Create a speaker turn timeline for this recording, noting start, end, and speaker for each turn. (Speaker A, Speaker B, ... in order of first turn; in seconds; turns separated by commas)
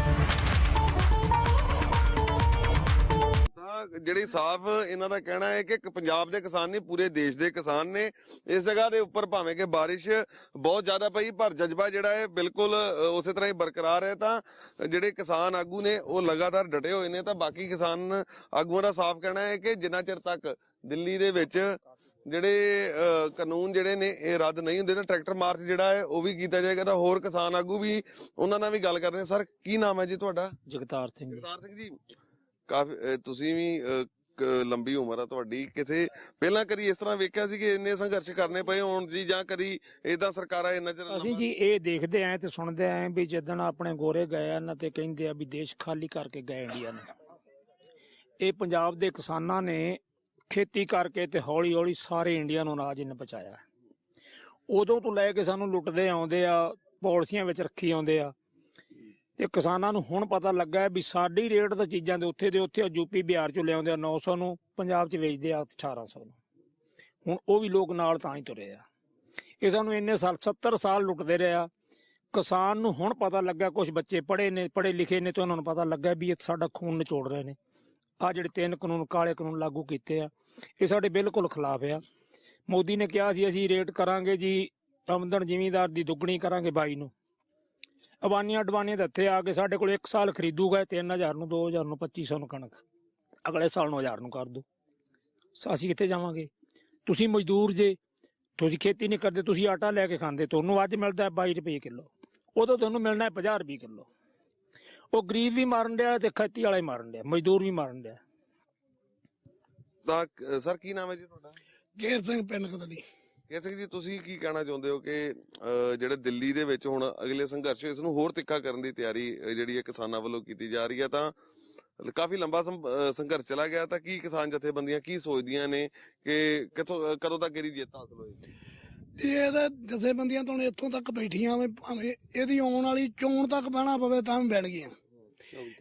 Speaker A: 3.5-30.5, Speaker B: 30.7-31.4, Speaker A: 31.3-32.0, Speaker A: 32.7-41.4, Speaker B: 41.1-47.1, Speaker B: 48.4-53.6, Speaker B: 54.7-58.3, Speaker B: 59.4-66.3, Speaker B: 67.2-68.8, Speaker B: 69.6-71.7, Speaker B: 72.3-77.5, Speaker B: 78.2-82.0, Speaker B: 82.7-87.1, Speaker B: 88.2-92.8, Speaker B: 93.4-94.6, Speaker B: 95.6-96.5, Speaker B: 97.0-98.0, Speaker B: 98.6-104.1, Speaker B: 105.1-108.2, Speaker A: 110.0-111.5, Speaker C: 112.0-113.0, Speaker A: 113.5-121.3, Speaker A: 122.0-128.4, Speaker C: 129.2-134.9